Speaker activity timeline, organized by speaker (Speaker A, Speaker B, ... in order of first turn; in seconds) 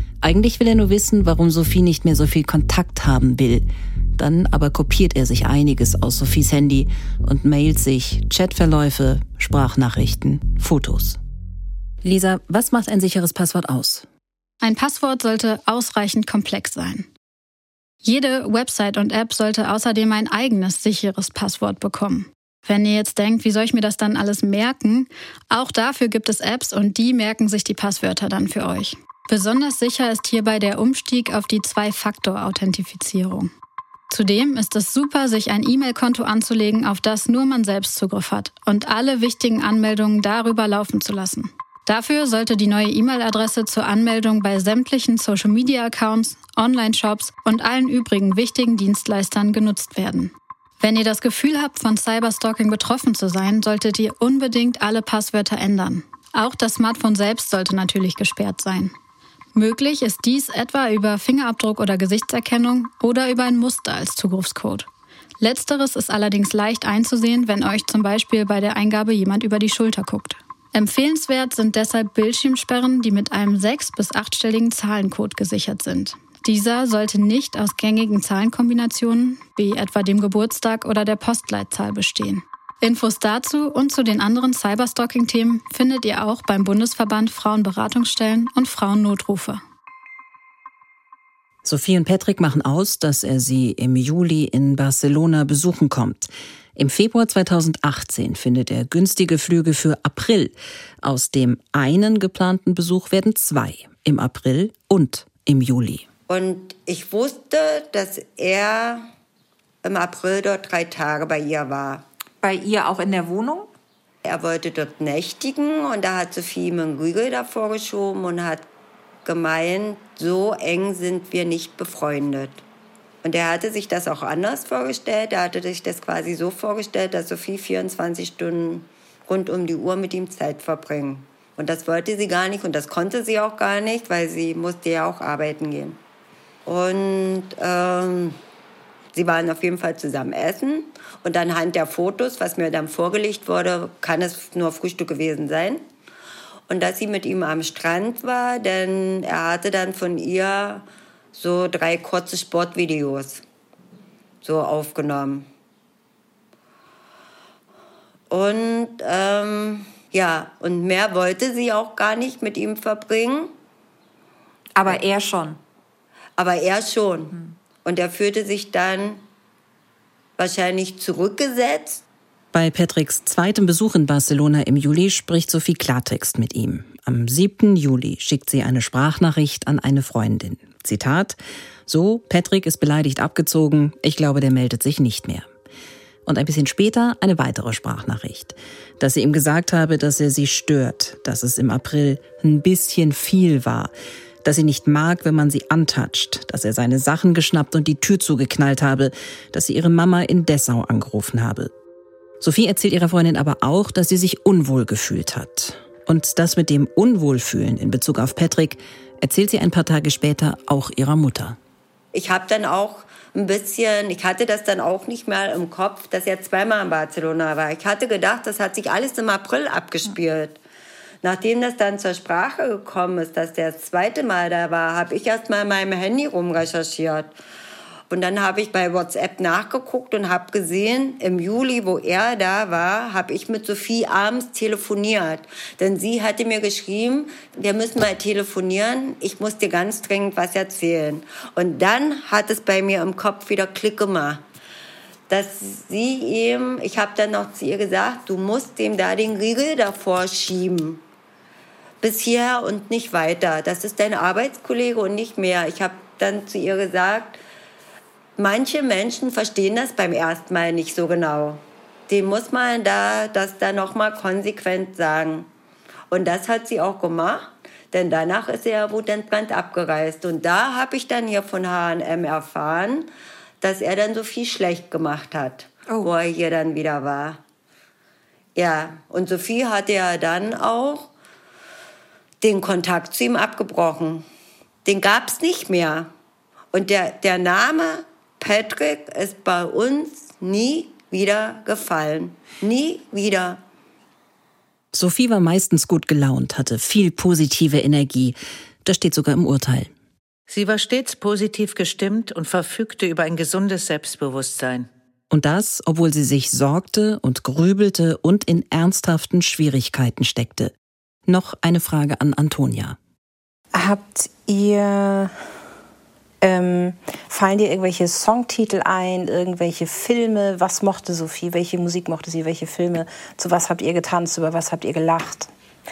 Speaker A: 0.2-11.2, 12.0-14.1, 91.6-106.0, 172.5-185.5, 186.2-193.9, 194.4-201.7, 202.4-211.6, 294.9-299.9, 305.3-310.7, 311.2-313.0, 314.1-314.9, 316.4-325.4
Speaker B: 14.6-17.1, 18.0-33.5, 34.1-58.9, 59.5-64.9, 65.4-89.6
Speaker C: 106.3-109.0, 109.8-112.0, 114.2-118.7, 119.2-122.6, 123.2-136.0, 136.6-138.4, 139.1-145.8, 146.7-153.4, 154.4-155.5, 158.3-163.5, 166.4-169.2, 170.4-172.0, 212.1-220.6, 221.2-227.3, 228.1-244.4, 245.3-251.0, 252.0-257.4, 258.4-265.5, 266.1-273.1, 273.6-277.4, 278.5-281.1, 282.4-284.3, 284.8-286.1, 286.7-293.6
Speaker D: 112.4-113.7, 164.7-165.6, 313.7-315.2, 316.5-317.3, 317.8-318.3, 320.1-321.6, 322.6-325.4
Speaker E: 300.5-304.9